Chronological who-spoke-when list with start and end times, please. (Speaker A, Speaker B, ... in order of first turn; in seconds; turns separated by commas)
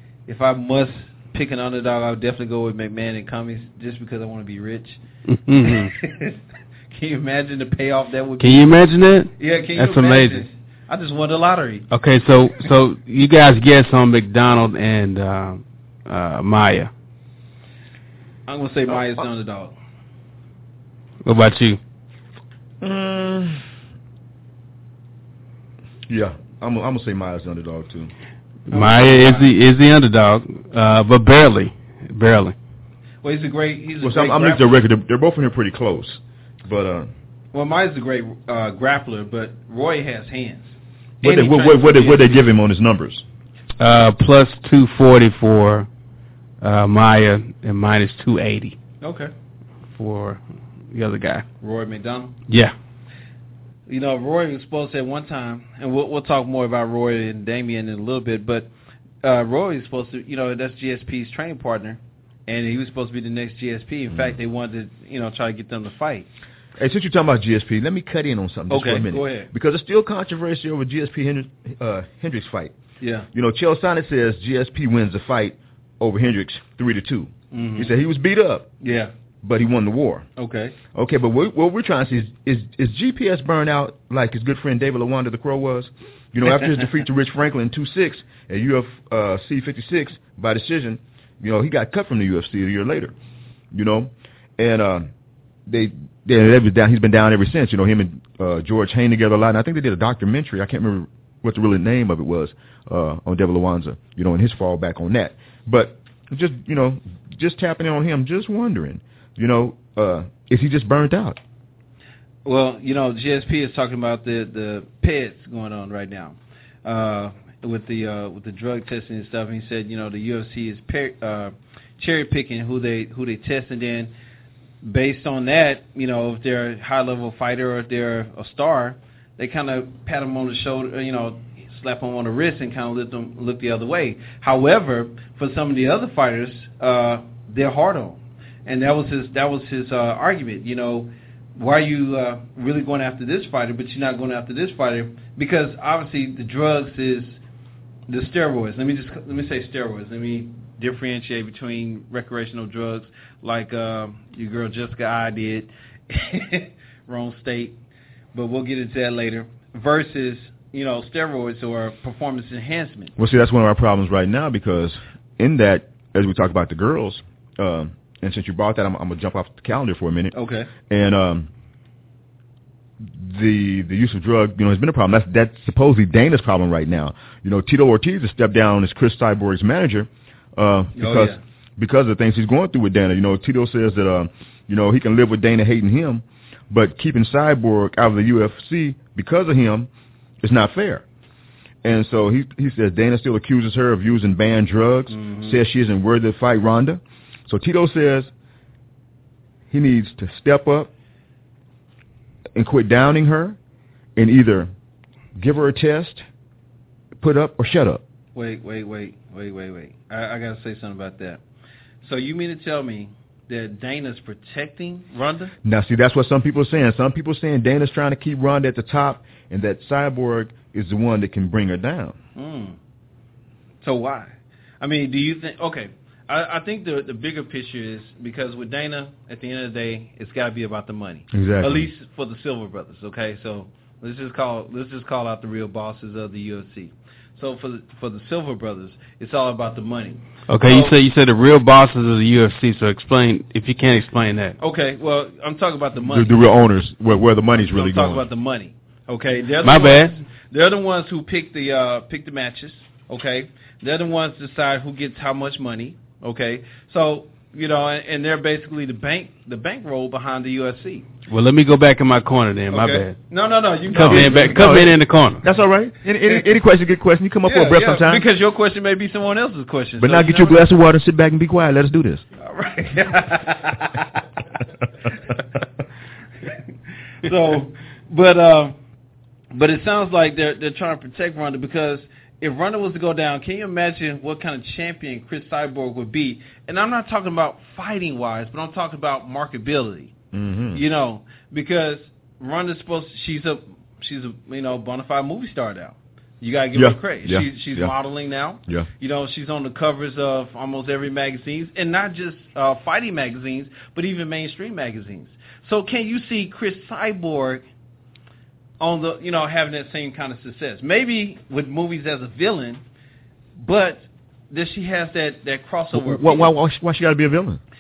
Speaker A: 0.3-5.0, Speaker B: 5.3-5.9, Speaker A: 5.6-6.4, Speaker A: 6.9-8.7, Speaker B: 8.4-10.5, Speaker A: 9.4-11.8, Speaker B: 11.9-16.9, Speaker A: 18.5-19.8, Speaker B: 21.2-21.8, Speaker C: 22.8-23.6, Speaker C: 26.1-28.1, Speaker B: 28.7-32.5, Speaker A: 28.7-29.5, Speaker A: 33.2-34.8, Speaker C: 34.0-37.1, Speaker A: 37.5-42.4, Speaker C: 41.2-43.2, Speaker B: 43.8-45.9, Speaker B: 46.6-48.8, Speaker A: 49.0-49.3, Speaker B: 50.0-50.4, Speaker B: 50.9-51.5, Speaker A: 51.6-52.4, Speaker B: 52.5-52.7, Speaker A: 53.9-58.7, Speaker A: 59.2-66.3, Speaker C: 64.1-64.4, Speaker C: 66.8-72.7, Speaker A: 68.7-69.5, Speaker A: 73.0-73.3, Speaker C: 73.3-78.7, Speaker A: 77.5-77.9, Speaker A: 78.8-79.1, Speaker C: 79.4-80.3, Speaker A: 80.4-80.8, Speaker C: 80.9-93.1, Speaker A: 86.5-86.8, Speaker C: 93.7-95.1, Speaker C: 95.7-111.4, Speaker A: 112.5-124.1, Speaker A: 124.8-147.4, Speaker A: 148.1-157.8, Speaker A: 158.3-163.1, Speaker C: 163.2-170.3, Speaker A: 170.3-170.7, Speaker C: 170.9-171.5, Speaker C: 173.0-189.9, Speaker A: 181.0-181.4, Speaker C: 190.4-191.0, Speaker C: 191.8-198.3, Speaker A: 195.1-195.6, Speaker C: 199.7-200.9, Speaker C: 202.6-203.6, Speaker C: 204.2-204.7, Speaker C: 205.4-206.2, Speaker C: 207.2-208.0, Speaker A: 208.3-211.4, Speaker A: 212.0-215.5, Speaker C: 215.6-222.2, Speaker A: 222.4-222.8, Speaker A: 223.8-240.9, Speaker C: 231.3-231.9, Speaker B: 240.5-244.6, Speaker A: 244.6-246.4, Speaker C: 246.1-248.2, Speaker A: 247.6-261.1, Speaker B: 249.6-250.2, Speaker B: 261.3-263.2, Speaker A: 262.7-264.9, Speaker B: 263.9-265.4, Speaker C: 263.9-268.2, Speaker A: 267.4-270.7, Speaker C: 270.0-272.3, Speaker A: 272.4-274.2, Speaker A: 277.2-278.8, Speaker A: 279.5-290.1, Speaker C: 290.3-290.8, Speaker A: 290.7-307.6, Speaker C: 296.8-297.9, Speaker A: 308.8-312.8, Speaker A: 313.6-316.5, Speaker C: 315.9-317.6